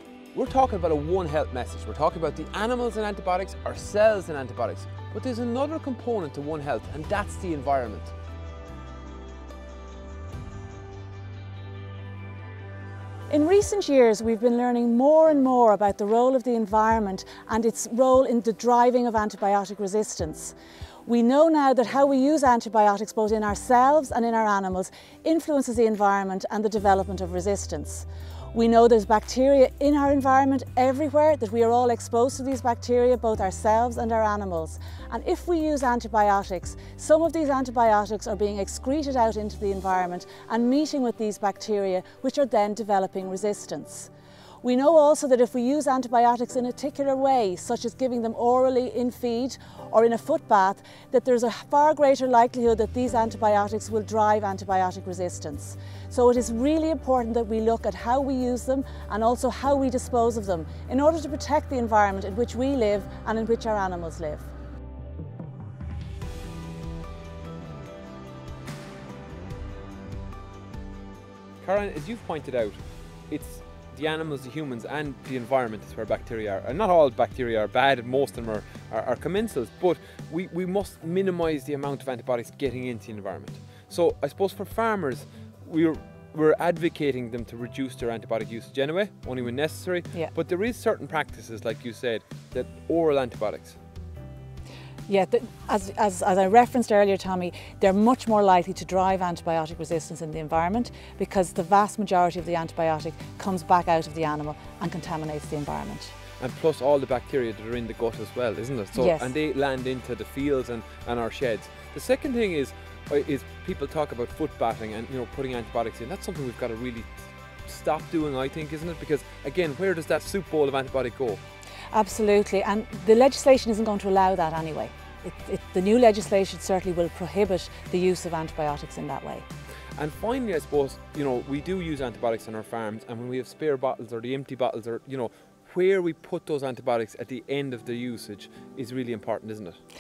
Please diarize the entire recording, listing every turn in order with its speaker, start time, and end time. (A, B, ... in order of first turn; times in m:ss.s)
0:00.3-0:08.1 A
0:13.3-0:20.6 B
0:21.1-0:44.1 B
0:44.6-1:04.5 B
1:11.6-1:12.8 A
1:13.3-1:33.8 A
1:35.1-1:46.2 B
1:46.4-1:57.1 A
1:49.0-1:49.3 B
1:57.6-2:01.4 A
2:01.9-2:09.4 B
2:10.0-2:19.8 A